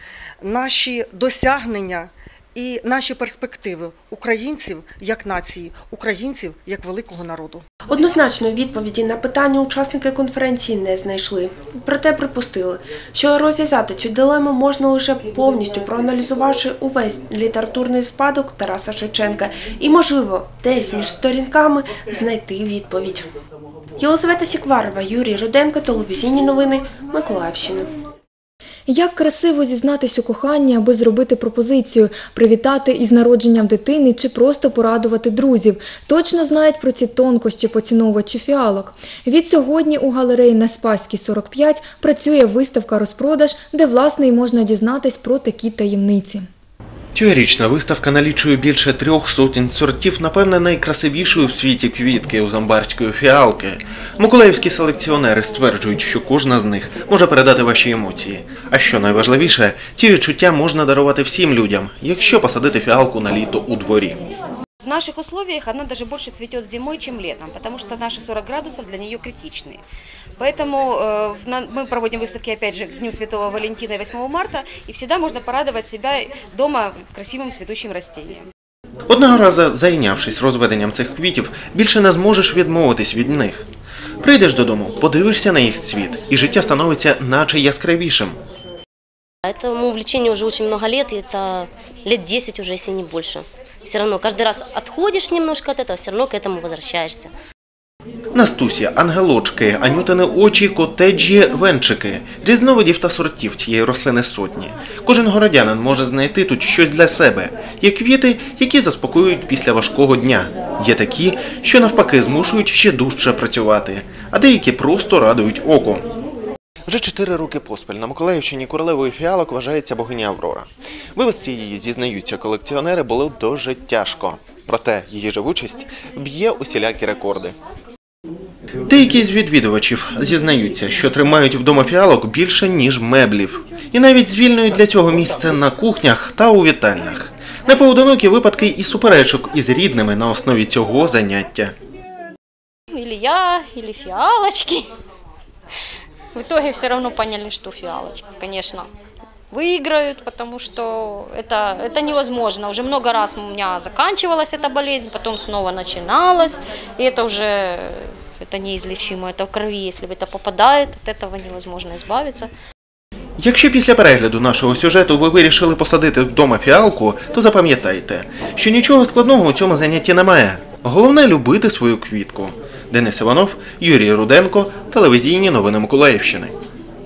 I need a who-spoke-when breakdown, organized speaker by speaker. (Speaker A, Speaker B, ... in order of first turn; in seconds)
Speaker A: 0.4-7.6
Speaker B: 7.9-23.2, 24.0-27.9
Speaker C: 28.9-46.5
Speaker D: 47.1-64.2, 79.1-83.7, 84.2-88.4, 98.3-116.0, 116.9-127.5, 128.9-141.7, 163.4-176.5
Speaker E: 64.8-69.8, 70.4-78.4
Speaker F: 89.4-97.3
Speaker G: 142.9-144.9, 146.3-148.9, 149.5-162.5